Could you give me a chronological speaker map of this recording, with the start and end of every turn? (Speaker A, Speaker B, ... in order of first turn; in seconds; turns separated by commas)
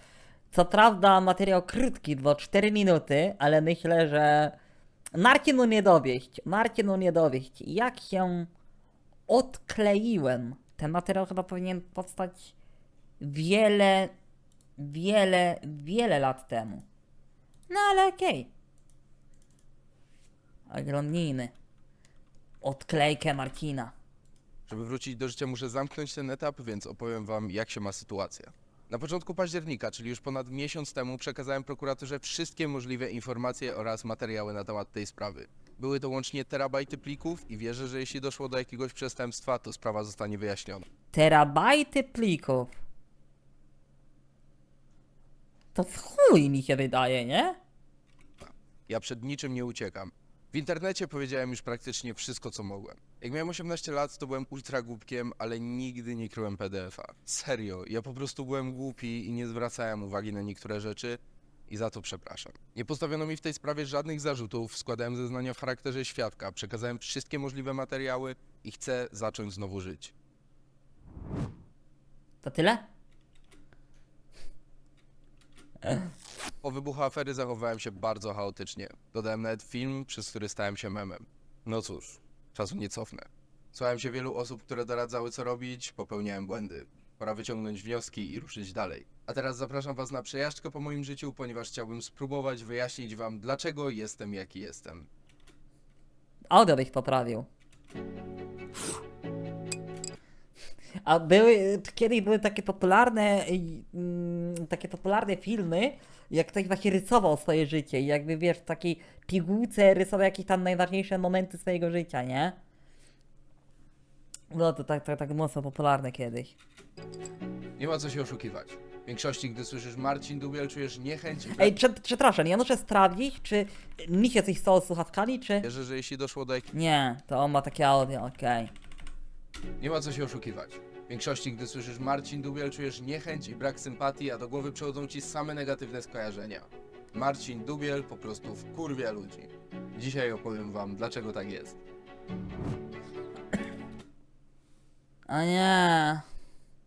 Speaker A: 0.5-4.5, Speaker A: 5.2-8.5, Speaker A: 9.3-12.5, Speaker A: 13.2-14.1, Speaker A: 14.8-16.9, Speaker A: 17.7-18.5, Speaker A: 20.7-21.5, Speaker A: 22.6-23.9, Speaker B: 24.7-40.8, Speaker A: 41.1-42.7, Speaker A: 45.8-47.6, Speaker B: 48.4-70.1, Speaker A: 72.4-72.8, Speaker B: 76.6-95.1, Speaker A: 96.5-97.5, Speaker A: 101.0-112.6, Speaker A: 114.5-116.6, Speaker B: 117.8-121.8, Speaker A: 121.6-125.7, Speaker B: 125.6-126.7, Speaker A: 126.7-128.7, Speaker B: 129.8-141.8, Speaker A: 145.3-146.2